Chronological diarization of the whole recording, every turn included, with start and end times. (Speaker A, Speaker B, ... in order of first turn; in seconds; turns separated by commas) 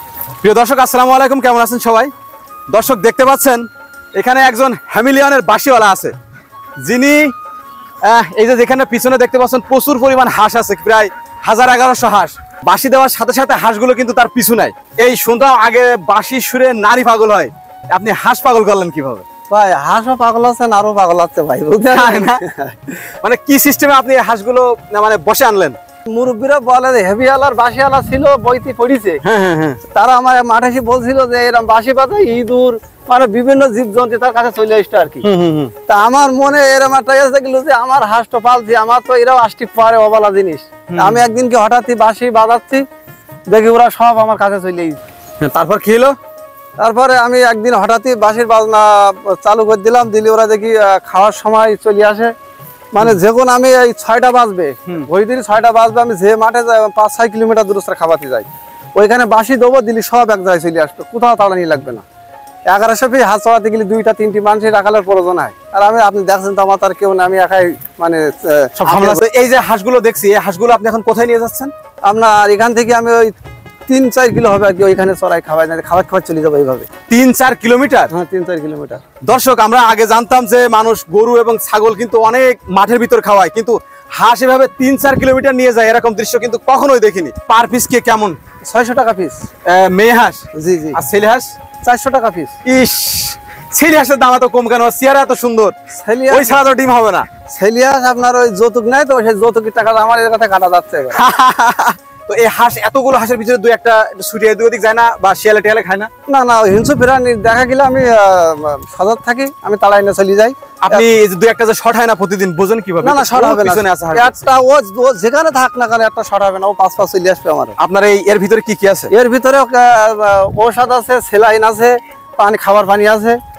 Speaker A: 0.4-2.1, Speaker A: 2.7-6.1, Speaker A: 6.8-7.3, Speaker A: 8.1-19.2, Speaker B: 19.5-22.9, Speaker A: 21.9-22.4, Speaker A: 23.2-25.8, Speaker B: 26.1-29.2, Speaker A: 29.2-29.8, Speaker B: 29.9-35.3, Speaker A: 35.2-35.7, Speaker B: 35.9-42.8, Speaker A: 40.9-41.2, Speaker B: 43.5-45.0, Speaker A: 45.4-46.2, Speaker B: 46.8-52.3, Speaker B: 52.9-62.0, Speaker B: 62.7-69.2, Speaker A: 68.8-71.7, Speaker B: 72.0-73.3, Speaker B: 73.9-76.9, Speaker A: 77.1-78.1, Speaker B: 78.1-79.0, Speaker A: 79.3-88.4, Speaker B: 88.7-89.4, Speaker A: 89.7-91.5, Speaker B: 90.5-91.0, Speaker B: 91.8-92.5, Speaker A: 92.7-95.8, Speaker B: 95.9-96.6, Speaker A: 96.3-97.3, Speaker B: 97.5-101.2, Speaker A: 101.1-106.1, Speaker B: 106.3-111.1, Speaker A: 110.8-114.4, Speaker B: 113.0-117.8, Speaker A: 117.8-119.1, Speaker B: 119.1-123.4